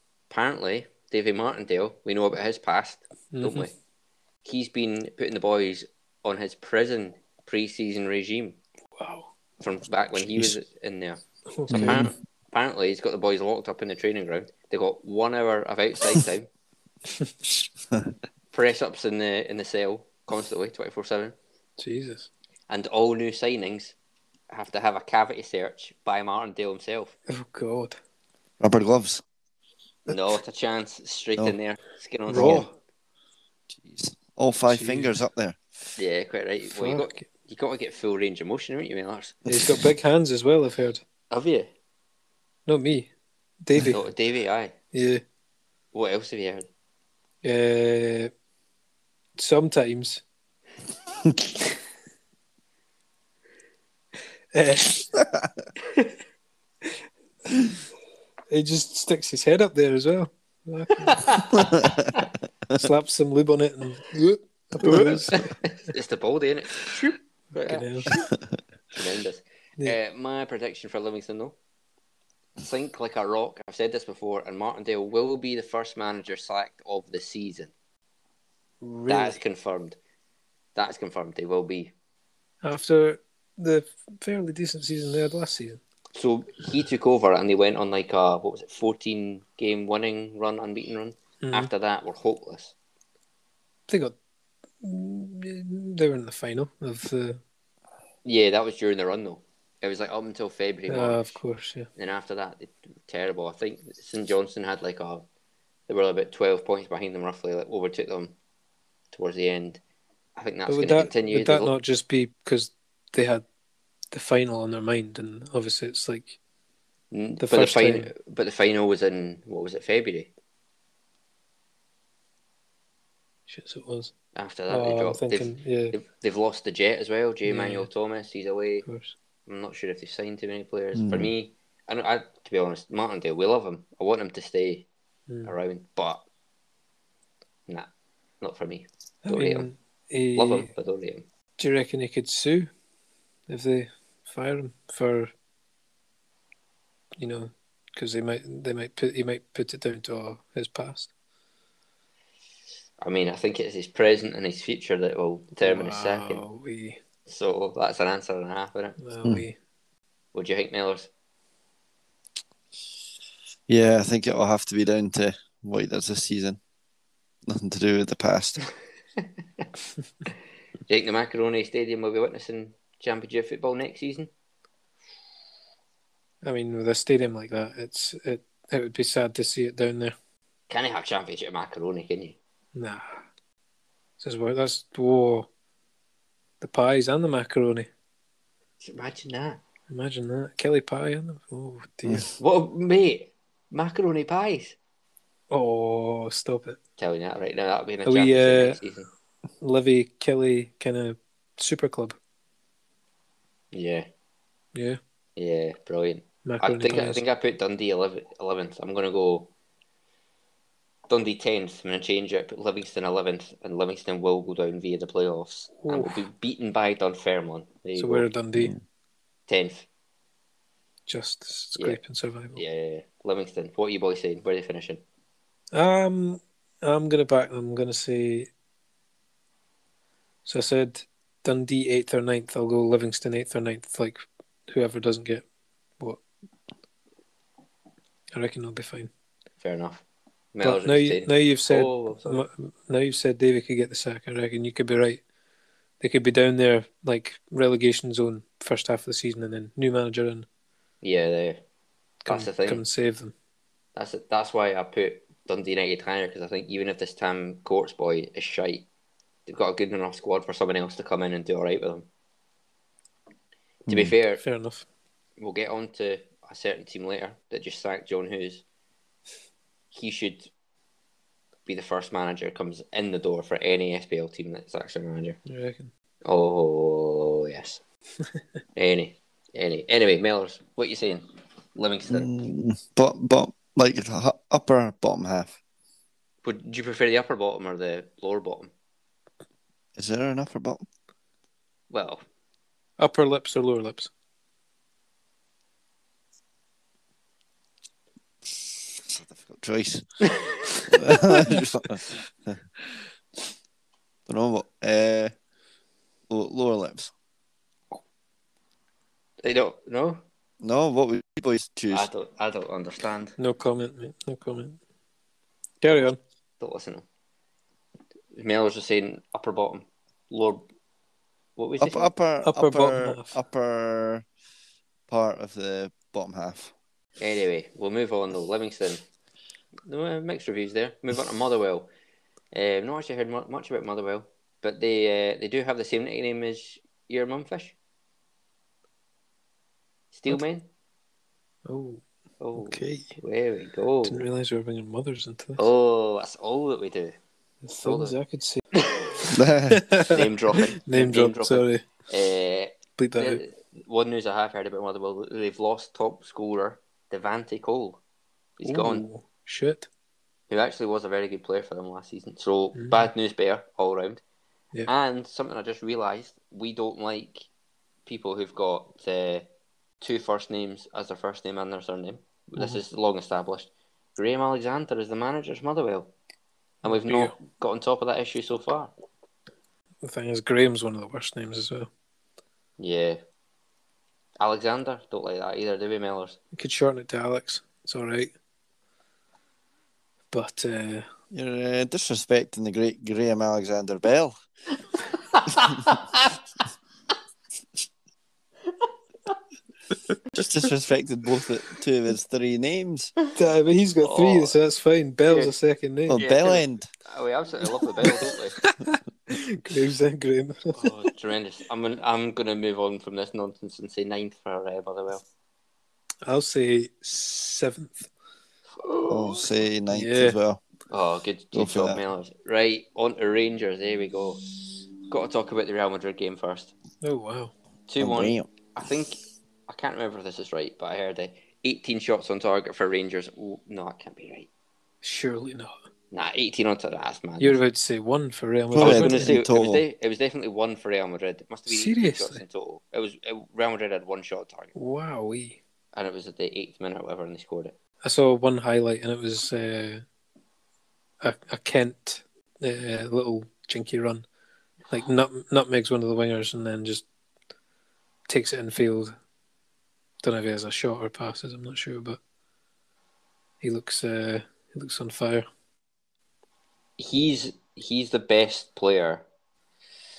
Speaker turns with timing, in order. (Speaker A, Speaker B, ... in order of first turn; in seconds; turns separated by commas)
Speaker A: 0.3-3.7, Speaker B: 3.3-3.7, Speaker A: 4.4-8.6, Speaker B: 9.0-9.3, Speaker A: 9.6-16.5, Speaker B: 11.6-12.1, Speaker C: 11.7-12.1, Speaker A: 18.5-21.4, Speaker B: 21.8-22.3, Speaker A: 22.7-23.9, Speaker A: 24.5-27.1, Speaker B: 27.3-28.0, Speaker C: 28.6-29.2, Speaker A: 30.1-32.7, Speaker B: 32.3-32.7, Speaker C: 32.3-32.7, Speaker C: 33.7-35.6, Speaker B: 34.7-35.1, Speaker A: 36.0-39.4, Speaker B: 36.7-37.3, Speaker B: 39.5-41.0, Speaker A: 41.3-41.7, Speaker B: 42.7-43.1, Speaker B: 43.6-44.0, Speaker A: 43.8-44.8, Speaker B: 44.9-45.2, Speaker A: 45.9-46.7, Speaker B: 47.4-48.3, Speaker B: 49.4-50.2, Speaker B: 54.5-55.2, Speaker B: 58.5-61.5, Speaker A: 61.1-62.2, Speaker C: 61.6-62.0, Speaker B: 62.7-65.5, Speaker A: 64.8-68.3, Speaker B: 67.6-68.1, Speaker A: 68.9-71.6, Speaker A: 72.6-77.7, Speaker B: 78.8-79.4, Speaker A: 79.1-80.0, Speaker A: 80.8-81.9, Speaker B: 82.6-85.8, Speaker A: 86.2-92.8, Speaker B: 91.4-91.7, Speaker B: 93.9-94.2, Speaker B: 94.8-97.4, Speaker A: 98.2-101.4, Speaker B: 100.9-101.9, Speaker A: 102.0-105.3, Speaker A: 105.9-108.3, Speaker A: 109.1-109.8, Speaker A: 110.4-111.7, Speaker B: 110.7-113.4, Speaker B: 114.1-116.4, Speaker A: 117.1-120.3, Speaker B: 117.4-118.1, Speaker B: 123.5-124.1, Speaker A: 124.3-128.9, Speaker B: 124.7-126.0, Speaker B: 127.5-127.9, Speaker B: 128.9-129.2, Speaker A: 129.5-134.9, Speaker C: 130.9-131.3, Speaker A: 135.4-136.2, Speaker A: 138.4-139.7, Speaker B: 139.2-140.7, Speaker A: 140.3-141.3, Speaker B: 141.6-142.7, Speaker B: 143.5-145.3, Speaker B: 147.2-151.1, Speaker A: 153.0-156.4, Speaker B: 155.6-157.0, Speaker A: 157.3-159.0, Speaker B: 159.0-159.6, Speaker A: 160.3-161.1, Speaker C: 163.7-166.6, Speaker C: 167.5-168.6, Speaker A: 170.9-174.3, Speaker B: 176.4-180.2, Speaker A: 180.7-182.4, Speaker B: 182.8-183.2, Speaker B: 184.2-185.5, Speaker B: 186.6-187.9, Speaker A: 188.8-189.6, Speaker B: 189.9-192.3, Speaker A: 192.4-194.8, Speaker B: 195.5-196.8, Speaker A: 197.0-199.1, Speaker B: 198.1-198.8, Speaker B: 199.6-202.2, Speaker A: 203.7-204.1, Speaker A: 205.4-209.5, Speaker B: 206.4-207.2, Speaker A: 211.1-218.3, Speaker B: 215.8-216.2, Speaker B: 218.0-218.7, Speaker A: 219.5-219.9, Speaker B: 221.1-222.6, Speaker A: 222.6-225.0, Speaker B: 225.7-228.5, Speaker B: 230.4-235.4, Speaker B: 238.3-239.1, Speaker A: 239.6-242.5, Speaker B: 240.6-245.2, Speaker B: 246.0-250.5, Speaker A: 251.0-251.6, Speaker B: 252.2-253.3, Speaker A: 252.3-252.8, Speaker A: 253.9-258.9, Speaker A: 259.5-262.1, Speaker C: 263.9-264.1, Speaker A: 263.9-264.4, Speaker B: 264.4-264.9, Speaker A: 265.4-268.6, Speaker A: 269.9-270.5, Speaker A: 271.7-275.4, Speaker B: 275.5-275.9, Speaker A: 276.2-277.8, Speaker A: 278.8-282.3, Speaker C: 282.1-285.6, Speaker A: 286.4-288.7, Speaker C: 290.0-290.9, Speaker A: 291.9-292.2, Speaker B: 293.0-294.1, Speaker C: 299.1-300.2, Speaker C: 300.9-302.6, Speaker C: 304.3-305.3, Speaker C: 306.3-307.1, Speaker A: 309.4-310.2, Speaker C: 310.6-312.1, Speaker A: 311.9-313.4, Speaker B: 313.4-314.8, Speaker B: 315.8-316.2, Speaker A: 316.6-317.1, Speaker A: 318.4-320.7, Speaker A: 321.6-322.1, Speaker C: 321.8-324.2, Speaker B: 322.4-323.4, Speaker C: 325.1-326.7, Speaker A: 327.2-329.0, Speaker A: 329.9-331.9, Speaker A: 332.5-337.8, Speaker A: 340.1-340.7, Speaker B: 341.7-342.0, Speaker A: 342.4-344.2, Speaker B: 342.6-343.2, Speaker B: 344.1-345.7, Speaker A: 345.6-347.2, Speaker B: 347.6-348.7, Speaker A: 347.8-348.2, Speaker A: 348.9-349.2, Speaker C: 349.3-349.8, Speaker B: 349.7-351.8, Speaker A: 350.0-358.0, Speaker B: 353.0-353.4, Speaker A: 358.6-359.1, Speaker B: 358.6-359.9, Speaker A: 360.5-364.2, Speaker B: 362.8-363.1, Speaker A: 364.9-367.5, Speaker A: 368.1-369.5, Speaker A: 370.0-376.1, Speaker A: 376.8-378.9, Speaker B: 376.9-377.3, Speaker B: 380.0-381.9, Speaker A: 382.8-383.2, Speaker A: 384.4-386.4, Speaker B: 386.6-388.3, Speaker B: 390.3-391.1, Speaker C: 391.3-394.4, Speaker A: 395.3-396.4, Speaker C: 400.3-403.1, Speaker B: 403.3-406.2, Speaker A: 404.0-404.6, Speaker A: 405.3-405.5, Speaker C: 406.1-406.9, Speaker A: 406.2-408.6, Speaker B: 408.0-410.9, Speaker A: 410.8-415.2, Speaker B: 416.2-418.1, Speaker A: 418.8-419.5, Speaker C: 419.1-420.6, Speaker B: 419.9-420.4, Speaker A: 420.9-424.4, Speaker C: 421.5-422.0, Speaker A: 425.1-426.7, Speaker B: 427.0-427.5, Speaker A: 427.9-434.5, Speaker C: 428.0-428.5, Speaker B: 435.0-435.8, Speaker A: 436.1-437.6, Speaker B: 437.4-439.3, Speaker C: 438.7-439.8, Speaker A: 438.8-444.7, Speaker B: 441.7-442.4, Speaker B: 444.8-445.6, Speaker A: 445.9-447.8, Speaker B: 448.0-450.0, Speaker B: 451.2-454.2, Speaker B: 454.9-457.0, Speaker B: 458.3-459.1, Speaker B: 460.2-462.2, Speaker B: 463.6-465.5, Speaker A: 467.0-469.3